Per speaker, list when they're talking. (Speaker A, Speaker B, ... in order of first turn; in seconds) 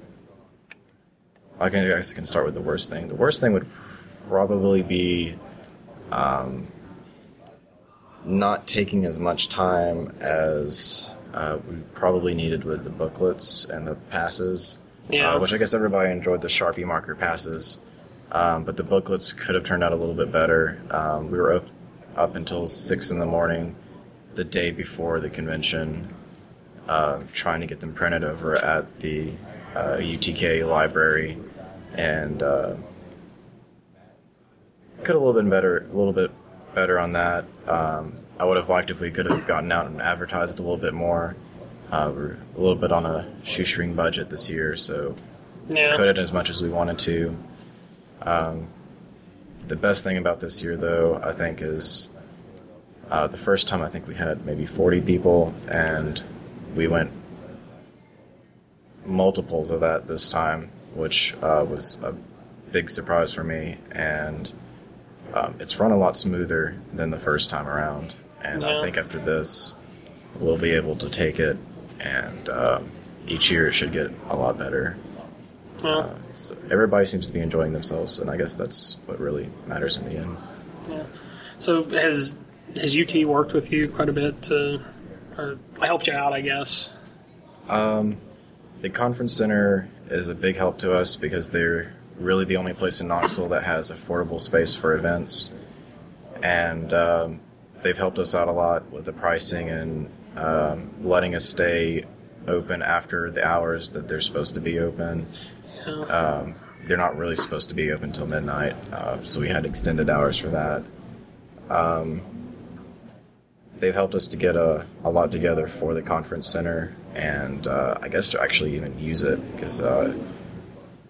Speaker A: 1.6-5.4, 6.1-6.7, 8.2-17.8, 18.3-23.8, 24.3-26.1, 26.9-31.4, 31.9-32.8, 35.0-41.4, 41.9-45.2, 45.9-47.4, 48.2-48.7, 49.6-52.1, 53.1-57.2, 59.0-62.2, 62.7-64.5, 65.3-69.8, 70.3-75.0, 75.9-80.4, 87.7-88.2, 88.8-95.5, 96.4-105.3, 106.1-110.9, 111.7-112.3, 113.8-120.2
Speaker B: 15.1-15.5, 45.7-46.1, 68.5-68.9, 81.6-84.8, 85.4-86.9, 105.8-106.1